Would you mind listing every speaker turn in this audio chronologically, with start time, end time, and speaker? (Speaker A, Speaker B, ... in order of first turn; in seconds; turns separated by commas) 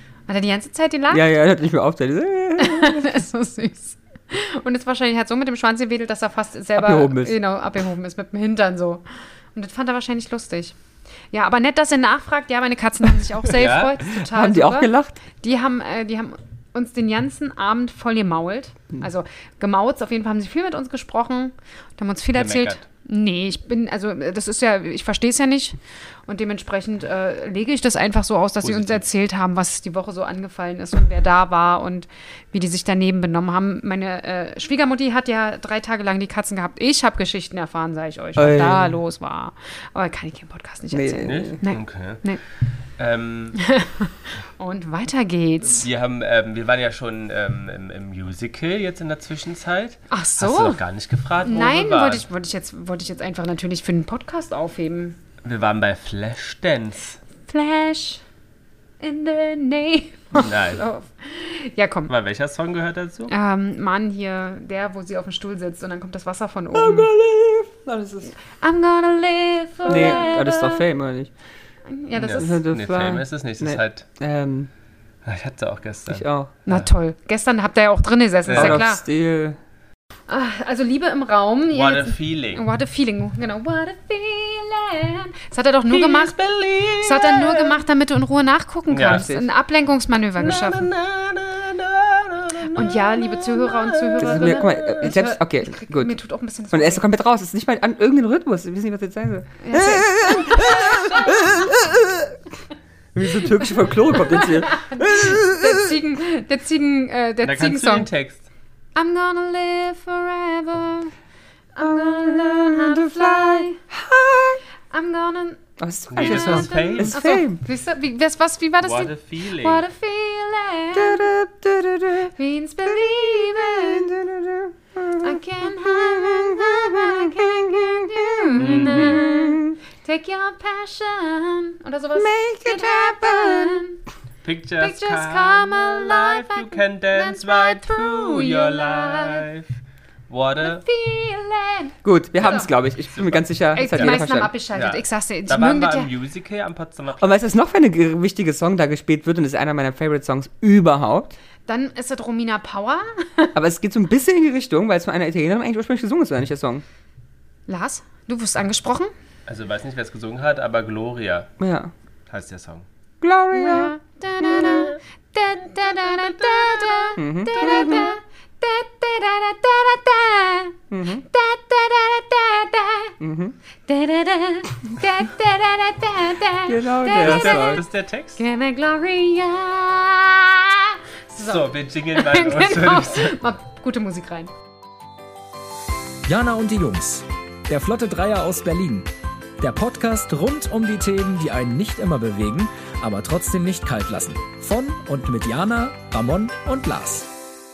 Speaker A: 0.3-1.2, Speaker B: 1.1-3.2, Speaker A: 2.6-10.7, Speaker B: 6.8-7.4, Speaker A: 11.3-42.4, Speaker C: 13.5-13.9, Speaker B: 14.1-15.2, Speaker C: 22.3-22.8, Speaker C: 28.6-29.0, Speaker B: 38.4-39.0, Speaker B: 40.9-41.6, Speaker C: 41.2-42.2, Speaker C: 43.0-43.6, Speaker A: 43.5-45.9, Speaker C: 45.7-52.2, Speaker A: 50.1-50.8, Speaker A: 51.4-55.2, Speaker C: 55.4-57.2, Speaker A: 57.5-58.2, Speaker A: 59.0-62.1, Speaker C: 60.3-60.8, Speaker C: 62.1-63.3, Speaker A: 63.3-67.1, Speaker B: 66.7-68.3, Speaker A: 68.5-70.8, Speaker B: 69.8-71.3, Speaker A: 71.8-72.6, Speaker C: 72.2-74.0, Speaker B: 72.3-74.7, Speaker C: 75.2-76.9, Speaker B: 76.1-76.5, Speaker A: 76.7-79.0, Speaker C: 78.5-78.8, Speaker B: 78.5-79.6, Speaker A: 80.3-86.3, Speaker C: 81.7-82.6, Speaker C: 85.9-87.8, Speaker A: 87.0-90.9, Speaker C: 88.9-89.3, Speaker B: 89.0-89.5, Speaker C: 90.4-95.1, Speaker A: 92.7-97.0, Speaker B: 94.2-96.2, Speaker B: 96.7-102.4, Speaker A: 99.6-101.7, Speaker B: 103.1-105.9, Speaker A: 103.4-108.1, Speaker C: 107.4-108.4, Speaker A: 109.0-111.1, Speaker A: 111.8-113.8, Speaker B: 111.8-114.6, Speaker A: 114.9-115.6, Speaker B: 115.8-117.6, Speaker C: 116.1-117.2, Speaker A: 116.2-121.3, Speaker C: 118.8-119.8, Speaker B: 120.9-122.3, Speaker A: 122.3-124.1, Speaker B: 122.8-129.8, Speaker A: 125.2-134.0, Speaker C: 128.6-129.2, Speaker B: 132.1-133.8, Speaker C: 134.4-139.7, Speaker A: 134.8-139.5, Speaker C: 140.3-140.8, Speaker A: 140.6-142.7, Speaker B: 142.0-144.5, Speaker C: 143.1-144.2, Speaker A: 143.7-146.1, Speaker C: 144.7-147.3, Speaker B: 147.2-151.4, Speaker A: 151.7-153.5, Speaker B: 153.5-156.8, Speaker A: 157.7-159.1, Speaker C: 159.5-161.5, Speaker B: 161.6-161.9, Speaker C: 162.3-162.8, Speaker B: 163.2-163.9, Speaker A: 163.5-173.2, Speaker C: 166.1-167.1, Speaker B: 167.2-168.1, Speaker B: 170.9-171.2, Speaker B: 173.2-173.6, Speaker A: 173.8-184.5, Speaker B: 176.7-177.8, Speaker C: 177.2-178.4, Speaker C: 181.3-183.4, Speaker D: 186.2-197.3